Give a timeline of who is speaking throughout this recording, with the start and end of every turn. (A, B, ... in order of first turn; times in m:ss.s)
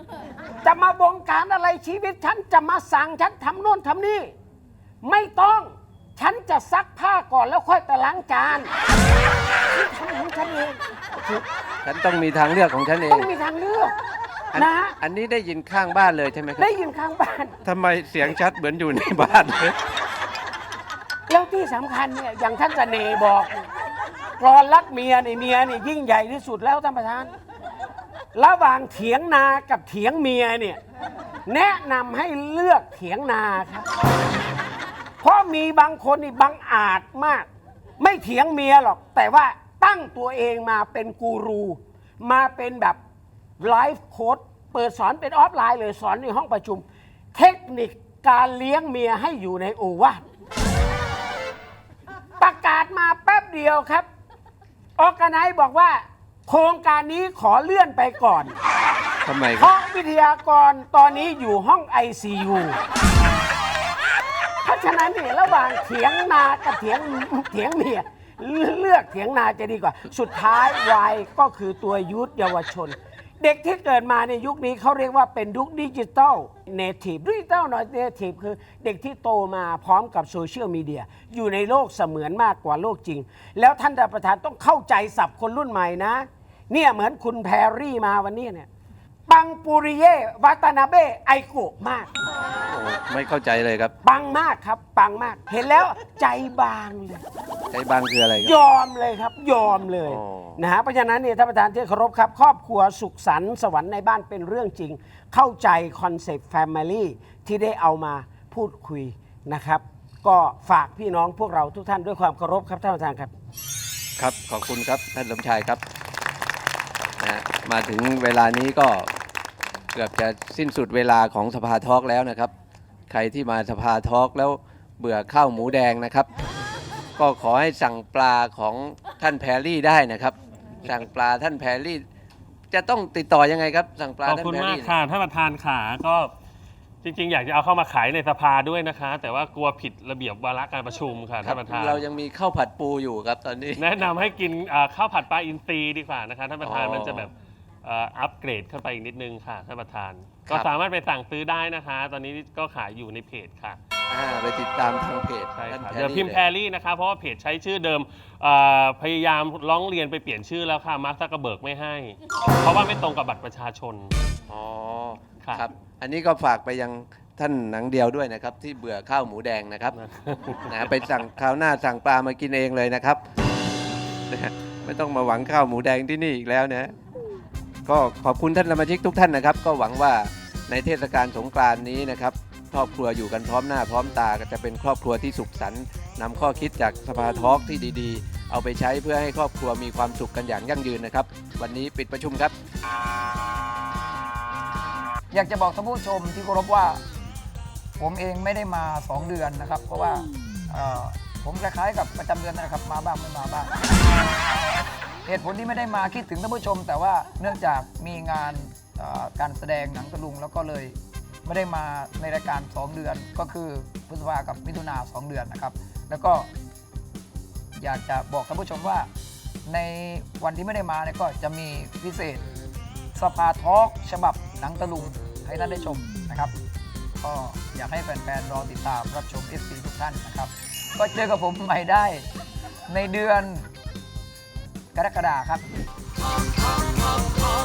0:00.6-0:04.3 A
0:05.0-0:08.7 A
0:09.7-0:11.4 A
0:11.8-0:13.3 B
0:13.1-0:13.9 A
0:14.5-0:16.7 B
0:14.5-0:14.9 A
0:16.6-0:17.6 A
0:17.6-0:19.8 B
0:21.3-0:23.7 A
0:24.4-0:27.3 A
0:28.3-0:30.8 A
0:31.5-0:33.8 A
0:35.2-0:43.0 A
0:43.6-0:50.2 A
0:52.4-0:54.0 A
0:55.0-0:58.6 A
0:59.2-0:59.7 B
0:59.6-1:02.8 A
1:04.6-1:28.7 A
1:29.3-1:32.1 A
1:32.7-1:33.9 B
1:34.0-1:37.2 A
1:37.7-1:38.5 B
1:38.4-1:53.3 A
1:40.1-1:40.6 B
1:54.2-1:55.8 B
1:57.2-1:59.1 B
1:59.9-2:02.5 B
2:03.1-2:06.3 B
2:07.2-2:12.0 B
2:12.7-2:14.9 B
2:14.2-2:16.3 C
2:17.0-2:22.0 C
2:21.4-2:23.9 B
2:23.8-2:33.8 C
2:26.6-2:27.3 B
2:34.1-2:36.5 B
2:35.5-2:44.1 C
2:44.5-2:50.0 B
2:49.9-2:51.1 C
2:50.7-2:53.2 B
2:54.3-2:56.9 B
2:57.8-3:12.5 B
3:15.3-3:17.0 D
3:18.0-3:23.7 D
3:25.2-3:36.5 D
3:37.8-3:39.1 D
3:39.6-3:42.5 D
3:43.1-3:46.5 D
3:47.2-3:52.3 D
3:52.9-3:53.7 D
3:54.9-3:55.6 D